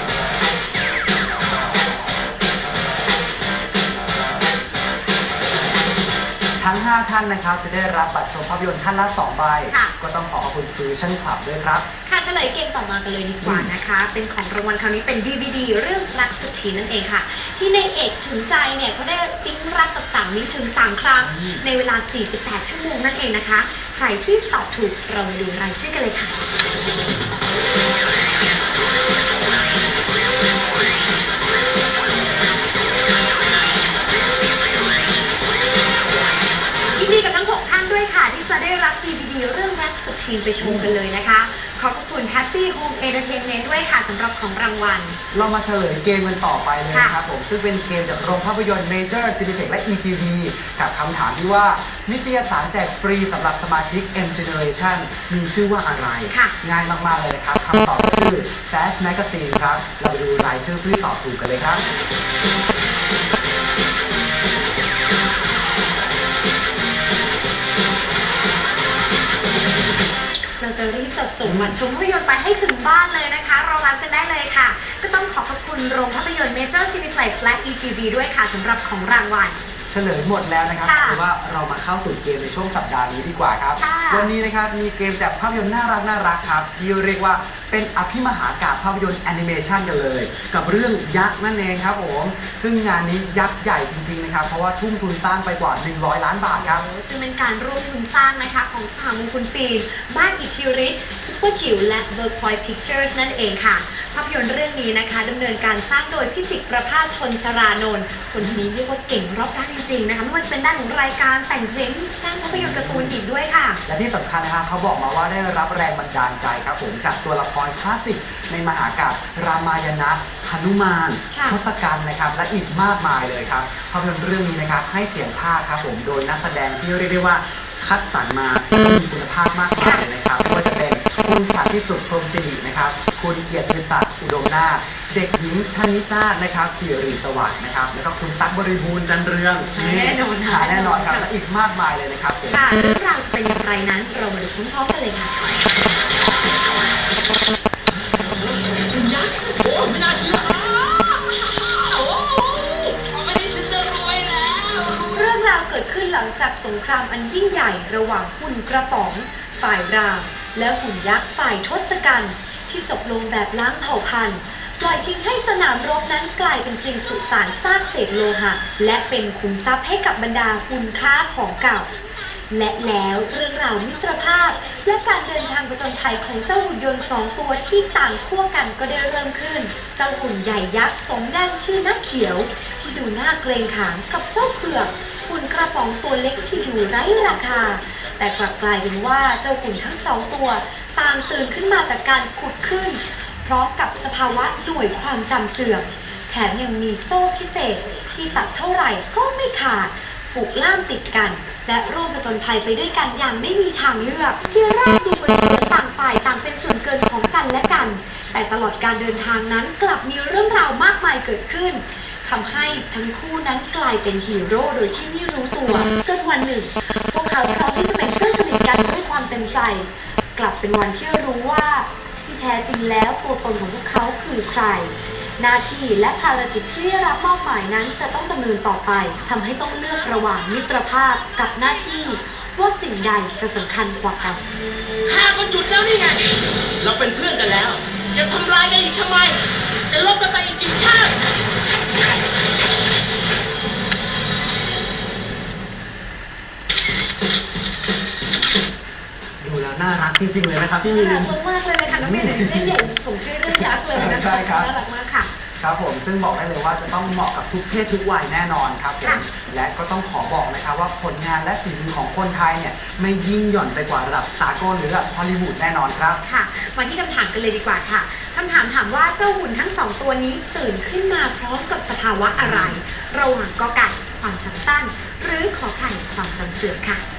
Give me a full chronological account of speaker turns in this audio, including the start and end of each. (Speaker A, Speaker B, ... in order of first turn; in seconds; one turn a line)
Speaker A: 6.6-11.9
Speaker B: 9.7-9.9
Speaker B: 12.1-26.4
Speaker A: 13.4-13.7
Speaker A: 21.2-21.6
Speaker B: 36.9-45.2
Speaker A: 40.6-41.0
Speaker A: 45.3-61.8
Speaker B: 46.9-47.2
Speaker B: 56.3-56.5
Speaker B: 70.6-79.6
Speaker A: 71.4-71.8
Speaker A: 79.9-96.8
Speaker B: 80.8-81.2
Speaker B: 83.8-84.3
Speaker B: 96.5-113.8
Speaker A: 112.5-113.2
Speaker A: 113.8-142.7
Speaker B: 121.3-121.6
Speaker B: 129.8-130.0
Speaker B: 139.8-141.3
Speaker B: 142.5-145.3
Speaker C: 148.4-155.3
Speaker B: 155.1-171.9
Speaker B: 172.5-234.4
Speaker C: 235.1-236.2
Speaker C: 236.8-241.3
Speaker A: 249.4-251.3
Speaker B: 250.8-255.3
Speaker A: 251.9-252.8
Speaker A: 253.5-254.7
Speaker A: 255.6-266.2
Speaker B: 266.2-277.0
Speaker A: 272.4-272.8